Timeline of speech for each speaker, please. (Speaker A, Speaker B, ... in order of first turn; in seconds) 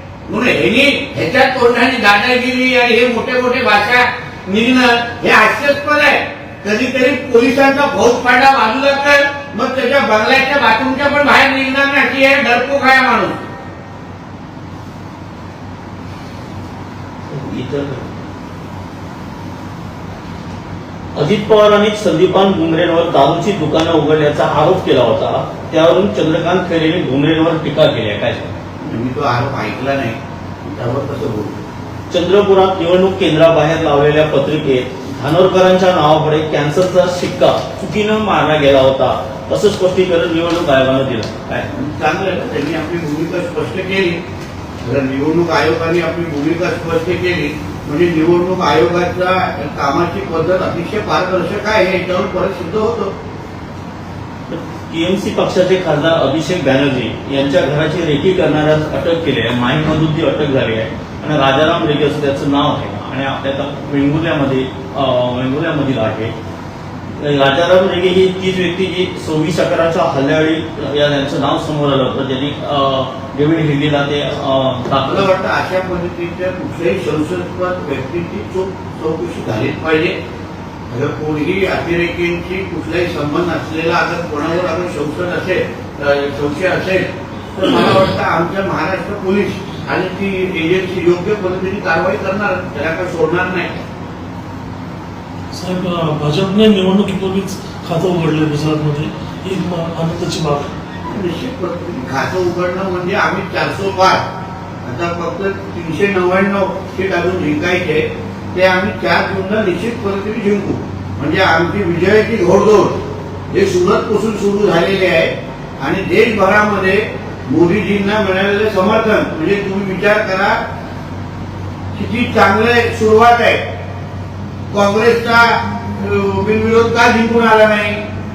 Speaker A: 0.3-13.4, 28.8-31.6, 41.7-44.2, 44.8-53.1, 75.0-80.2, 80.9-93.7, 101.0-104.2, 104.8-113.0, 113.5-120.6, 121.9-123.6, 124.7-128.0
Speaker B: 17.3-18.1, 21.1-28.5, 32.1-41.7, 54.5-66.3, 67.2-75.3
Speaker C: 95.5-100.7